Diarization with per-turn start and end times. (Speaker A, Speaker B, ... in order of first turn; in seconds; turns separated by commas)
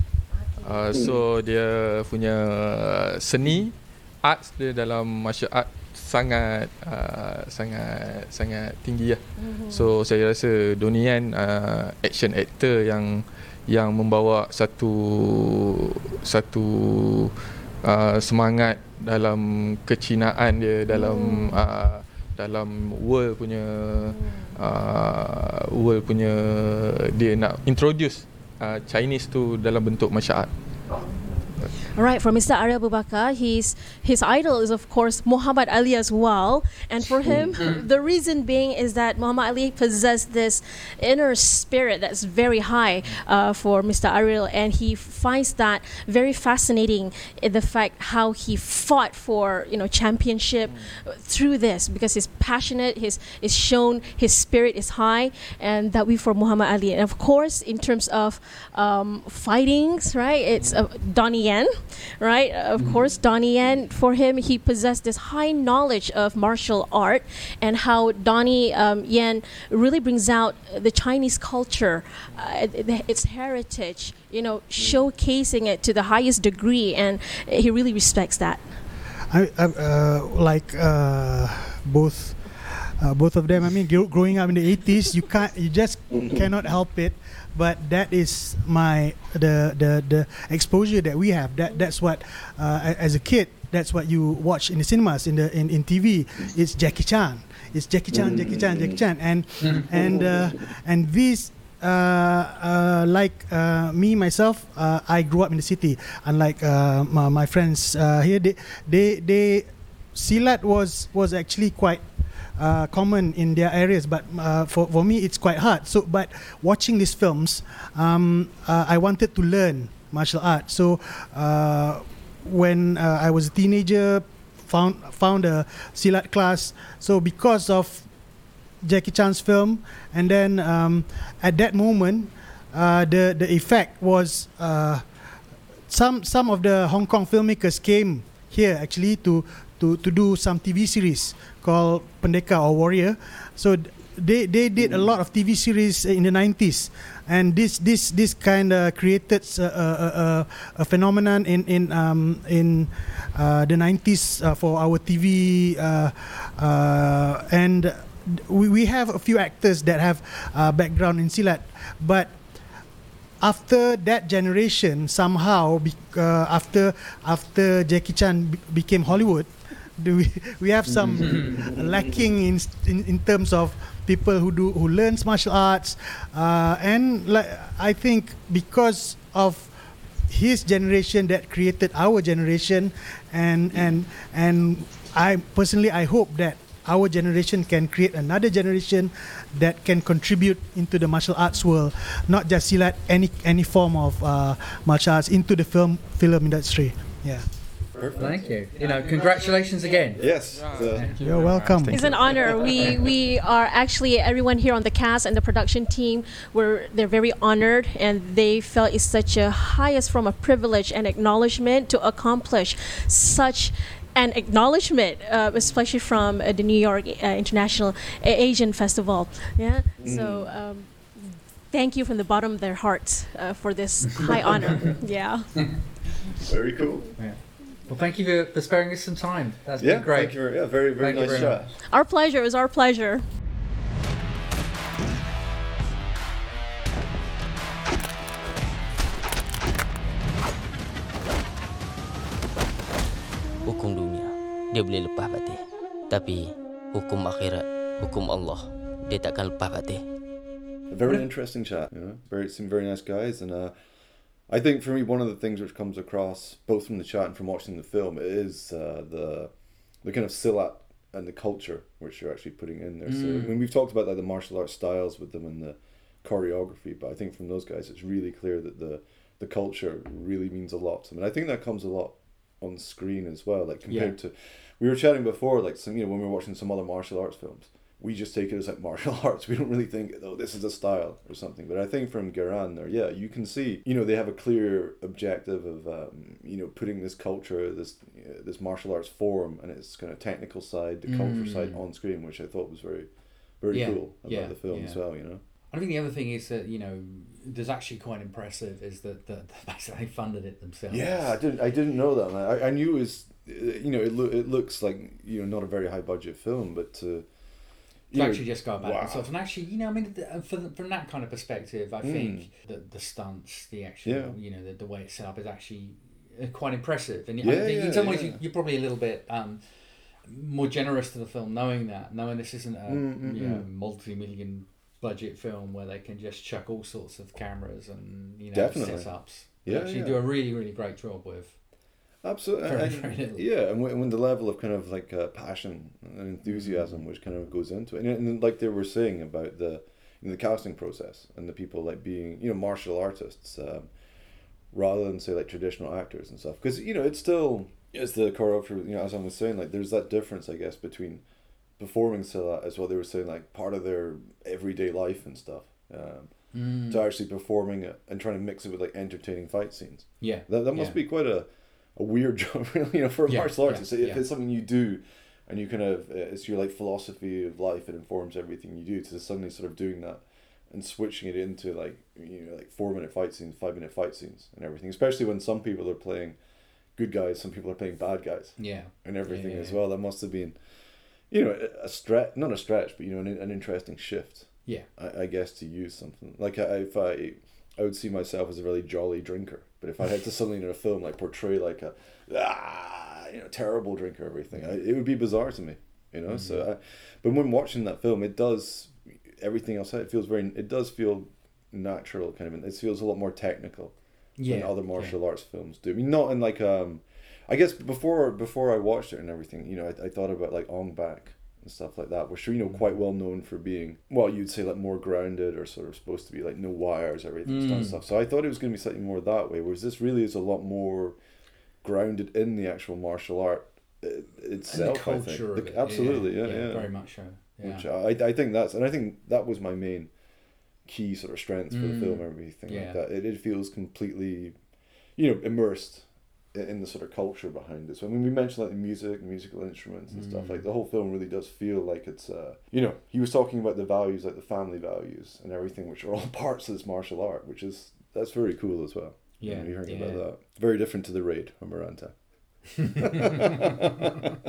Speaker A: 0.3-1.0, Speaker B: 0.6-30.5, Speaker A: 9.4-9.9, Speaker A: 20.9-21.6, Speaker A: 24.1-24.6, Speaker A: 31.0-78.6, Speaker C: 79.3-112.0, Speaker D: 98.1-99.0, Speaker D: 100.0-100.4, Speaker C: 112.6-128.2, Speaker C: 128.8-135.1, Speaker C: 135.9-162.4, Speaker C: 163.4-197.4, Speaker E: 170.9-171.7, Speaker D: 171.2-171.4, Speaker D: 197.9-199.5, Speaker E: 198.2-201.2, Speaker D: 200.1-201.2, Speaker B: 200.5-202.8, Speaker C: 201.2-202.1, Speaker A: 201.9-225.7, Speaker D: 202.2-203.0, Speaker D: 220.0-220.6, Speaker D: 226.3-227.3, Speaker E: 227.2-231.7, Speaker D: 229.8-231.8, Speaker A: 231.9-233.2, Speaker F: 243.7-245.6, Speaker F: 246.1-250.0, Speaker D: 250.9-295.4, Speaker E: 263.1-263.6, Speaker E: 273.9-274.2, Speaker E: 291.1-291.8, Speaker E: 293.7-301.4, Speaker D: 300.9-309.3, Speaker E: 308.1-331.6, Speaker D: 312.0-312.5, Speaker D: 314.0-314.4, Speaker D: 317.4-318.4, Speaker D: 322.9-323.7, Speaker D: 328.5-330.3, Speaker D: 332.2-343.9, Speaker E: 332.6-333.5, Speaker E: 336.5-337.1, Speaker D: 344.7-421.2, Speaker E: 356.5-357.1, Speaker E: 360.2-361.0, Speaker E: 363.3-364.2, Speaker E: 378.6-379.8, Speaker E: 396.3-396.6, Speaker E: 404.4-405.2, Speaker E: 412.6-413.0, Speaker E: 417.5-418.0, Speaker D: 421.8-453.7, Speaker E: 424.7-427.9, Speaker E: 431.7-433.0, Speaker E: 440.1-440.7, Speaker E: 449.4-450.3